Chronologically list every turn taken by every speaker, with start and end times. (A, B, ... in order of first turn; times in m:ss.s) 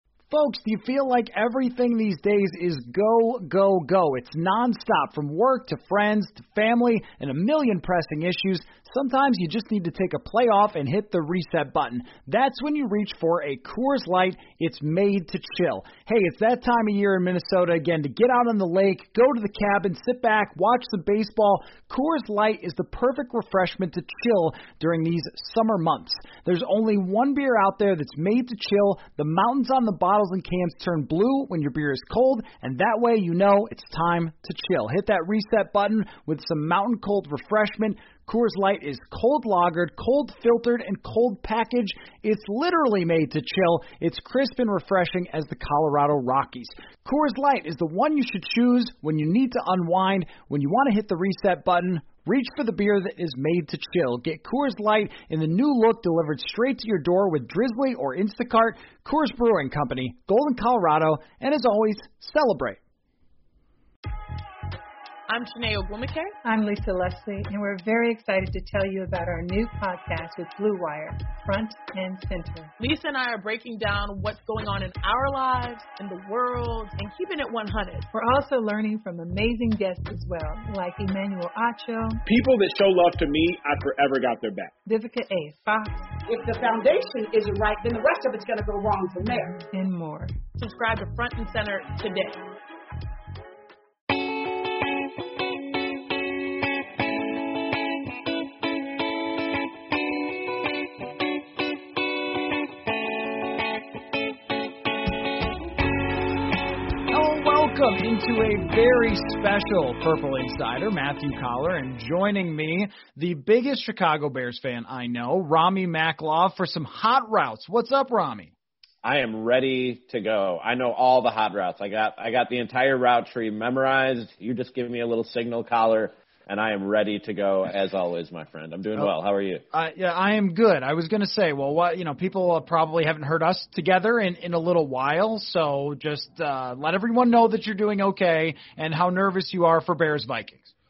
0:00.3-1:02.8 A
1:05.3-1:06.3 B
1:06.4-1:12.7 C
1:12.8-1:18.1 B
1:18.1-1:22.2 C
1:22.3-1:24.7 D
1:22.6-1:24.6 E
1:24.8-1:26.1 C
1:26.2-1:29.6 F
1:29.6-1:30.3 C
1:30.6-1:32.4 B
1:47.1-1:58.5 A
1:59.0-2:09.6 E
2:09.7-2:20.7 A